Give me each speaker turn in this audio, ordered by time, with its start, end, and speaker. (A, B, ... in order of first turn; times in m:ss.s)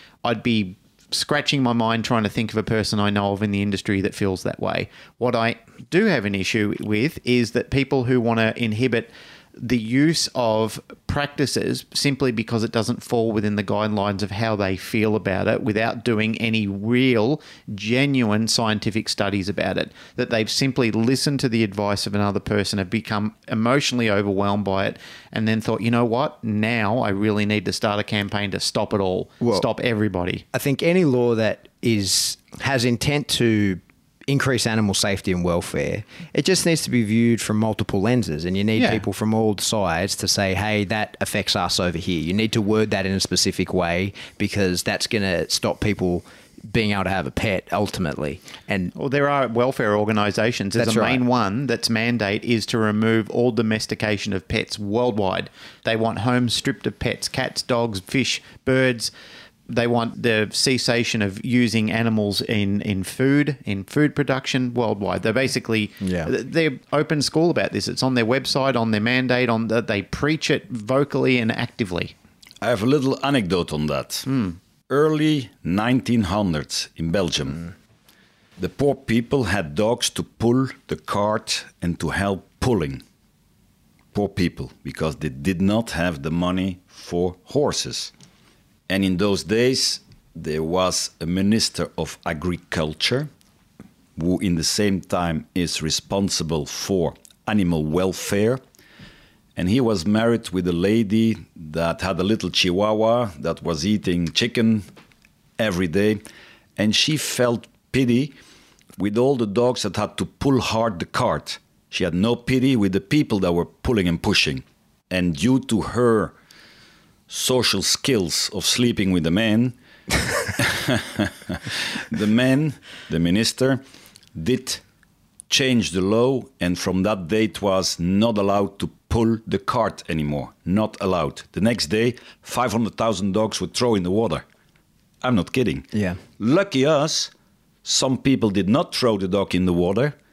0:00.2-0:30.4 A
0:29.4-0:29.7 B
0:30.5-0:48.9 B
0:38.8-0:39.0 A
0:49.0-0:59.1 A
0:50.8-0:51.2 B
0:59.7-1:12.1 A
1:06.0-1:06.3 B
1:12.6-1:14.3 C
1:14.3-1:14.6 A
1:14.9-1:17.7 C
1:18.6-1:23.0 C
1:24.1-1:28.1 C
1:28.9-1:33.3 C
1:34.2-1:38.6 C
1:39.6-1:44.9 C
1:45.6-1:46.2 C
1:46.8-1:48.4 C
1:49.0-1:56.4 C
1:57.3-1:59.8 C
2:00.6-2:03.8 C
2:04.3-2:04.8 C
2:05.5-2:14.4 C
2:15.2-2:17.3 C
2:15.9-2:16.2 B
2:17.8-2:20.2 C